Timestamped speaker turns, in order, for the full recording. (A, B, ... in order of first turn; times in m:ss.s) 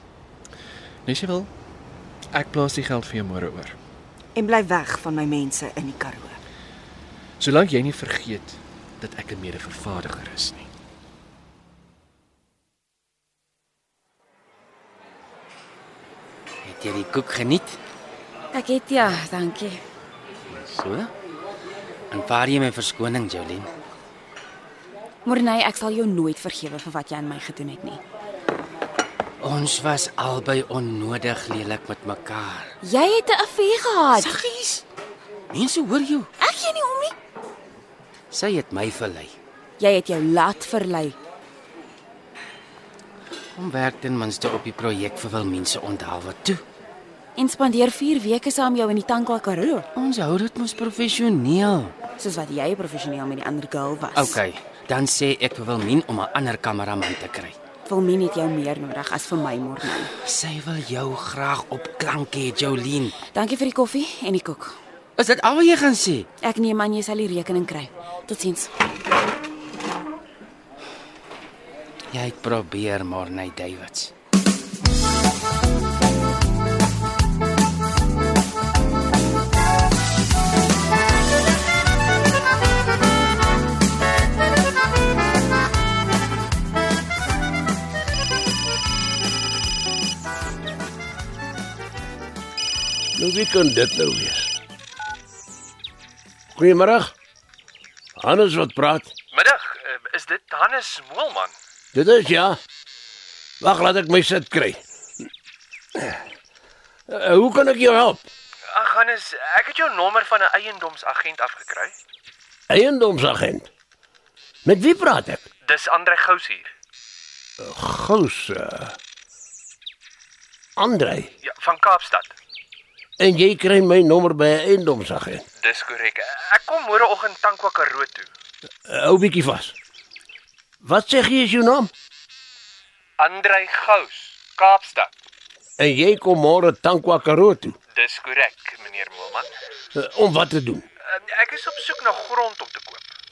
0:01.1-0:01.5 A
0:02.3-0:03.8 A
0:04.4-0:06.4 B
0:07.4-0:10.7 A
0:16.6-0:17.8 C
0:18.5-0:19.8 D
0:20.5-0:21.1 C
0:22.1-0:23.7 C
0:25.2-0:28.0 D
0:29.4-0:32.8 C
0:32.8-0:34.4 D
0:34.2-0:34.8 C
0:35.5-0:36.3 C
0:36.4-0:37.2 D
0:38.3-0:39.4 C
0:39.8-0:41.2 D
0:43.6-0:46.6 C
0:47.4-0:49.9 D
0:49.9-0:52.0 C
0:52.2-0:54.4 D
0:54.2-0:57.6 C
0:57.8-1:00.1 D
1:00.2-1:03.2 C
1:03.3-1:04.8 D
1:05.2-1:06.3 C
1:06.4-1:08.8 D
1:12.1-1:14.1 C
1:33.2-1:34.5 E
1:36.6-1:37.1 E
1:38.2-1:39.1 E
1:39.3-1:41.5 A
1:41.9-1:42.6 E
1:43.6-1:44.8 E
1:47.1-1:48.3 E
1:48.7-1:51.9 A
1:52.7-1:53.7 E
1:54.6-1:55.4 E
1:55.7-1:56.7 A
1:57.6-1:59.0 E
2:00.8-2:01.3 E
2:01.4-2:02.3 A
2:03.2-2:05.4 E
2:05.6-2:08.3 A
2:08.9-2:09.7 E
2:10.8-2:11.9 E
2:13.2-2:15.1 A
2:15.8-2:17.8 E
2:18.0-2:19.5 A
2:19.9-2:20.8 E
2:21.1-2:23.1 A